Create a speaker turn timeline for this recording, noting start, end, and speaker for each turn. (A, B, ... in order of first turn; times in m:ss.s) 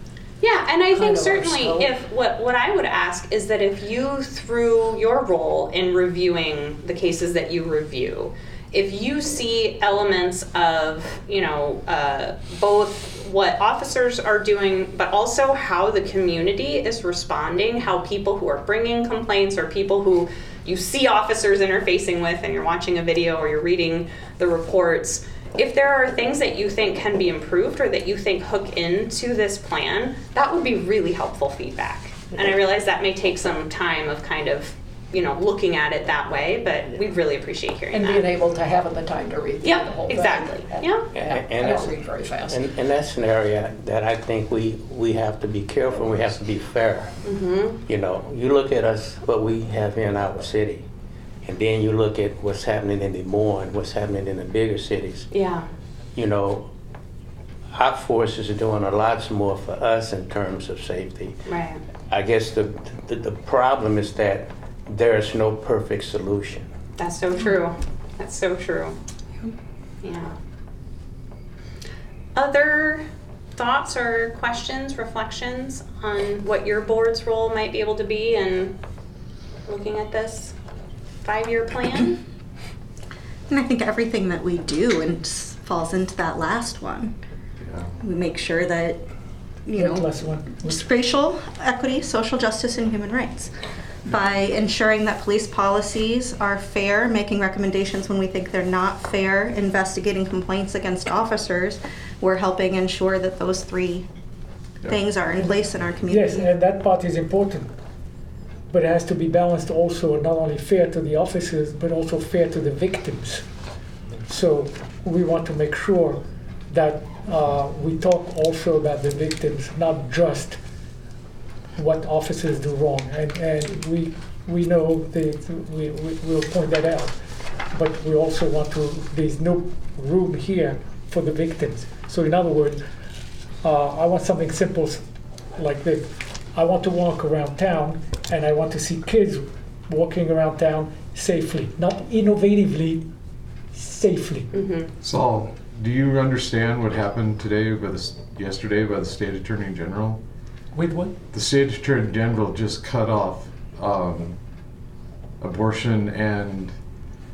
0:00.4-0:38.2 A
0:00.9-0:01.9 B
0:37.9-0:42.6 B
0:39.6-0:41.0 A
0:41.1-0:47.1 C
0:47.2-0:47.8 A
0:47.8-0:50.8 C
0:51.4-0:55.3 C
0:55.3-0:55.7 A
0:56.1-0:56.7 C
0:57.7-1:01.4 C
1:01.5-1:01.8 A
1:02.1-1:06.7 C
1:07.0-1:09.0 A
1:10.0-1:10.3 A
1:12.3-1:18.8 A
1:19.7-1:20.5 A
1:21.2-1:22.2 A
1:23.5-1:27.2 D
1:27.6-1:27.9 E
1:28.0-1:29.0 D
1:29.6-1:33.5 D
1:29.7-1:30.8 F
1:34.1-1:44.0 D
1:44.9-1:46.5 D
1:46.1-1:47.7 F
1:48.7-1:53.5 F
1:54.3-2:00.6 F
2:01.8-2:12.8 F
2:13.6-2:23.1 F
2:23.7-2:24.5 F
2:24.5-2:24.9 A
2:25.0-2:30.2 E
2:30.7-2:31.1 F
2:31.3-2:34.4 E
2:35.4-2:36.7 E